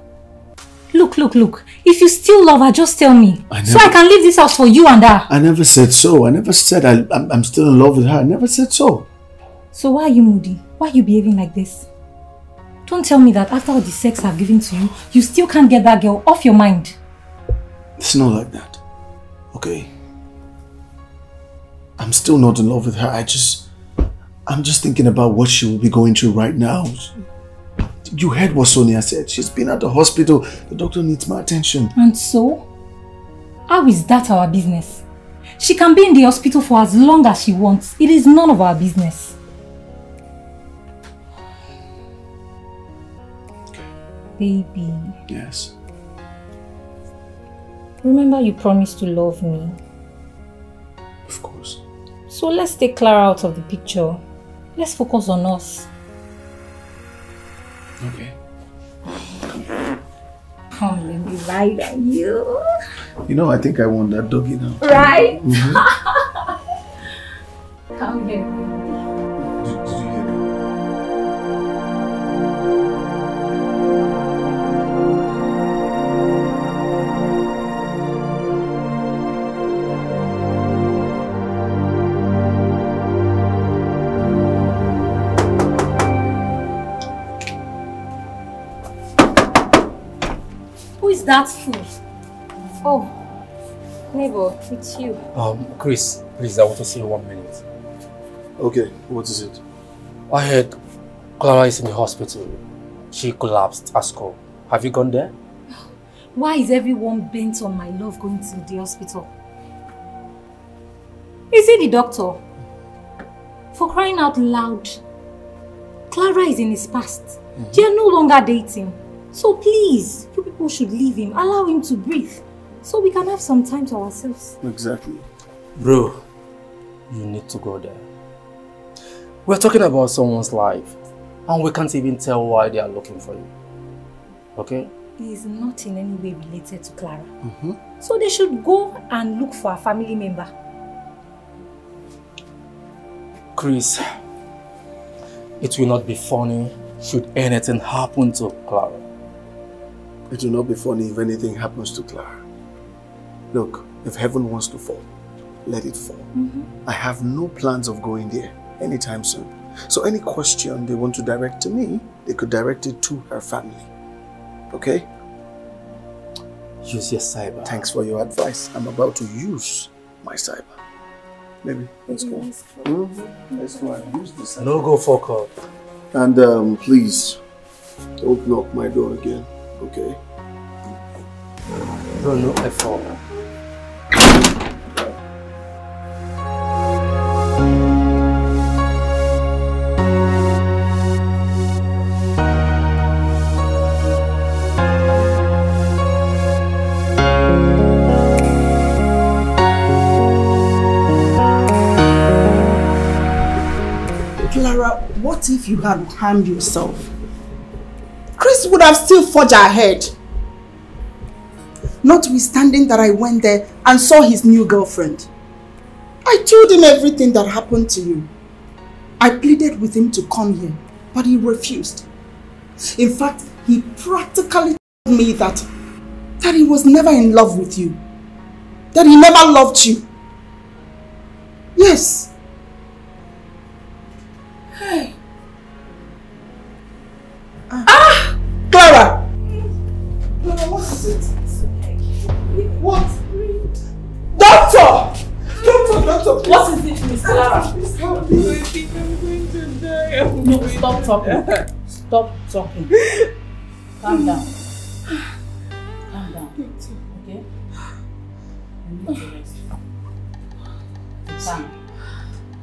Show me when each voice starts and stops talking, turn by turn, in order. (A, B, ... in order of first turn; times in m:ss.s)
0:00.9-0:05.3 A
0:03.5-0:04.0 B
0:05.3-0:09.1 B
0:09.7-0:11.9 A
0:12.8-0:16.9 A
0:18.0-0:18.8 B
0:19.5-0:19.9 B
0:22.0-0:23.7 B
0:24.5-0:27.1 B
0:28.0-0:31.9 B
0:32.0-0:32.7 A
0:33.7-0:35.0 A
0:35.6-0:39.4 A
0:44.4-0:45.2 A
0:45.3-0:45.7 B
0:48.0-0:49.8 A
0:51.3-0:51.8 B
0:52.3-0:54.2 A
0:54.8-0:55.9 A
0:58.0-0:58.4 B
1:00.7-1:02.6 A
1:03.2-1:05.8 B
1:04.8-1:06.5 A
1:08.0-1:09.0 A
1:09.4-1:10.4 B
1:31.0-1:31.9 A
1:32.8-1:33.1 A
1:34.1-1:35.2 A
1:35.3-1:37.6 C
1:38.6-1:39.6 B
1:40.3-1:40.7 C
1:41.4-1:45.3 C
1:46.3-1:49.3 A
1:51.5-1:52.4 A
1:53.7-1:55.0 A
1:56.1-2:04.6 A
1:57.6-1:57.8 B
2:04.6-2:05.3 B
2:05.8-2:06.2 C
2:07.1-2:08.0 C
2:09.4-2:13.5 C
2:14.6-2:14.9 C
2:15.2-2:17.3 A
2:17.4-2:17.8 B
2:18.0-2:20.5 A
2:23.6-2:24.1 C
2:25.6-2:29.0 C
2:30.3-2:32.4 B
2:33.5-2:35.1 B
2:35.6-2:36.3 B
2:36.3-2:36.7 A
2:36.8-2:43.9 B
2:44.7-2:45.1 B
2:46.8-2:47.8 C
2:47.6-2:50.8 B
2:51.6-2:54.9 B
2:54.6-2:55.5 C
2:56.1-2:57.4 B
2:58.2-3:00.2 B
3:02.1-3:03.2 C
3:24.4-3:27.1 D
3:28.4-3:30.1 D
3:32.0-3:35.3 D
3:36.2-3:38.3 D
3:39.2-3:42.0 D
3:42.8-3:45.6 D
3:46.4-3:48.0 D
3:48.9-3:50.1 D
3:51.8-3:52.3 D
3:57.7-3:58.0 D
3:57.9-3:58.2 E
3:58.7-3:59.2 D
4:00.4-4:01.3 D
4:02.7-4:03.7 D
4:04.3-4:08.7 D
4:06.4-4:07.7 E
4:09.4-4:11.3 D
4:10.4-4:12.9 E
4:14.0-4:14.5 E
4:16.1-4:17.4 E
4:16.6-4:17.0 D
4:18.8-4:19.6 E
4:21.2-4:21.7 E